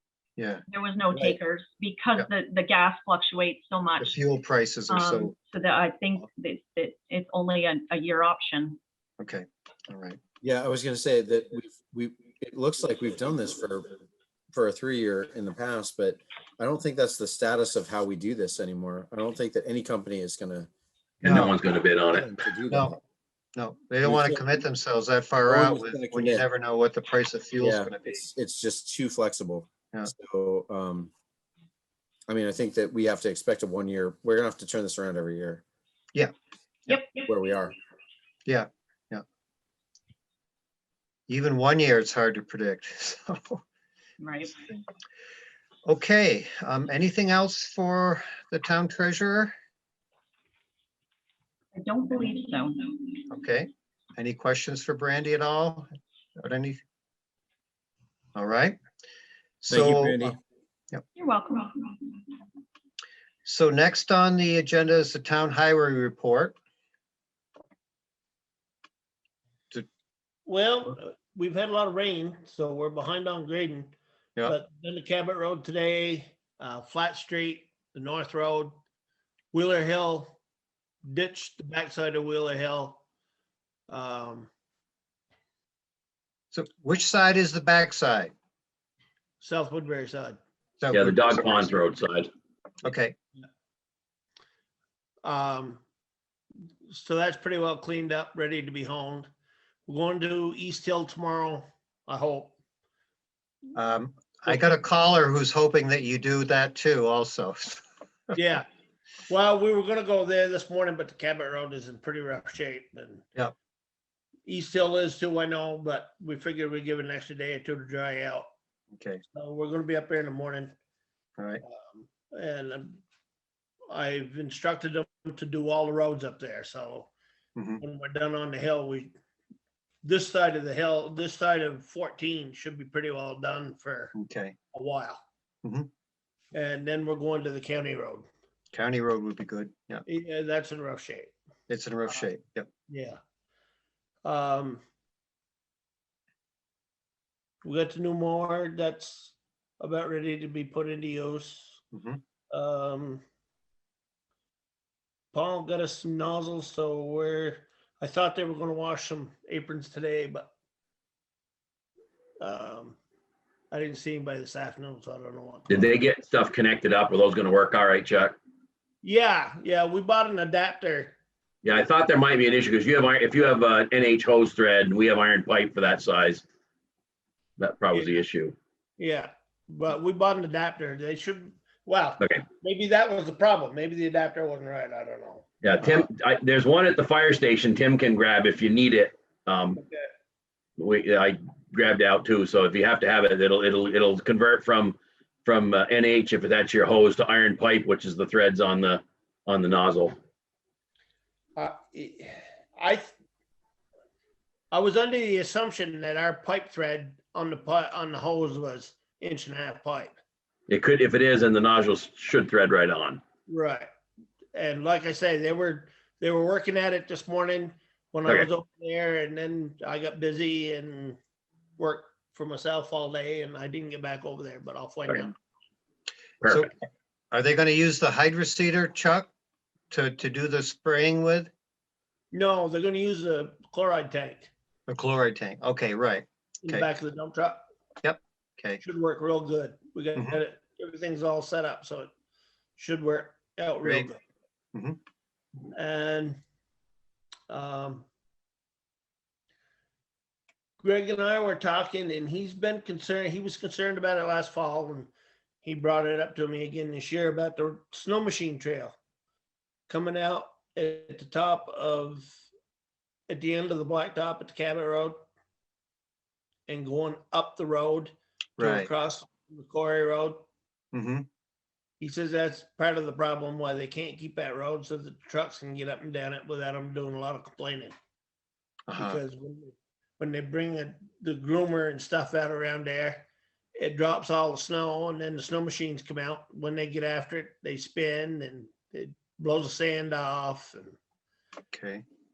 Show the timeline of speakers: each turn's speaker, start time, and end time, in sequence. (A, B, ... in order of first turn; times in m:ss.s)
0:00.4-0:00.6 A
0:00.7-0:04.2 B
0:04.0-0:05.3 A
0:04.9-0:08.8 B
0:09.2-0:10.2 A
0:10.4-0:13.9 C
0:14.5-0:20.7 C
0:21.2-0:22.3 D
0:21.2-0:21.5 A
0:22.1-0:22.9 C
0:22.7-0:23.0 A
0:23.6-0:28.2 A
0:24.0-0:24.6 C
0:25.4-0:26.4 C
0:27.6-0:31.1 C
0:32.3-0:35.6 C
0:36.9-0:37.2 B
0:37.1-0:37.8 C
0:38.4-0:39.2 A
0:41.3-0:43.6 A
0:44.2-0:44.6 B
0:45.8-0:49.5 A
0:51.7-0:53.2 B
0:53.3-0:56.8 A
0:58.3-0:58.8 A
0:59.6-1:00.2 A
0:59.7-1:00.4 C
1:01.2-1:02.0 B
1:03.4-1:06.6 A
1:10.4-1:13.9 E
1:14.4-1:18.8 E
1:19.5-1:20.3 E
1:21.0-1:23.0 E
1:23.9-1:24.5 E
1:26.5-1:28.3 A
1:29.4-1:30.4 E
1:30.8-1:31.8 A
1:30.9-1:32.3 D
1:32.8-1:33.1 A
1:35.2-1:35.8 E
1:36.9-1:39.3 E
1:39.8-1:42.5 E
1:43.7-1:48.3 A
1:48.3-1:48.6 E
1:49.3-1:53.2 E
1:54.4-1:58.5 E
1:59.0-1:59.2 A
1:59.3-2:00.7 E
2:01.4-2:01.6 A
2:01.6-2:03.0 E
2:03.9-2:07.1 E
2:07.6-2:07.8 A
2:07.8-2:09.1 E
2:10.0-2:14.1 E
2:14.2-2:14.5 A
2:14.7-2:15.2 E
2:16.5-2:18.3 E
2:18.7-2:20.0 A
2:20.0-2:21.3 E
2:21.7-2:22.7 A
2:22.9-2:23.2 E
2:24.2-2:24.8 E
2:27.6-2:31.8 E
2:31.9-2:32.2 A
2:32.5-2:33.2 E
2:35.3-2:40.5 E
2:42.4-2:43.0 E
2:43.7-2:46.0 E
2:45.7-2:48.4 D
2:49.0-2:51.2 E
2:51.6-2:56.4 D
2:57.6-2:58.6 D
2:59.0-3:05.4 E
3:02.2-3:02.4 D
3:05.6-3:09.8 D
3:09.8-3:10.1 E
3:10.8-3:20.2 D
3:21.6-3:23.1 E
3:24.7-3:30.1 E
3:30.7-3:33.2 D
3:33.5-3:33.9 E
3:34.5-3:41.2 E
3:41.8-3:45.3 E
3:46.4-3:46.7 D
3:47.3-3:49.3 A
3:49.9-3:51.5 A
3:52.3-3:54.5 E
3:54.9-3:56.9 A
3:56.6-3:57.6 E
3:58.0-3:58.8 A
3:58.8-4:02.1 E
4:02.8-4:04.2 E
4:05.7-4:06.4 E
4:07.5-4:08.0 E
4:10.8-4:15.1 E
4:15.6-4:18.9 E
4:19.9-4:22.4 E
4:23.3-4:25.2 E
4:26.7-4:30.4 E
4:28.6-4:28.9 A
4:30.9-4:31.2 A
4:32.0-4:37.9 E
4:38.9-4:39.2 A
4:39.0-4:51.0 E
4:51.7-4:52.0 A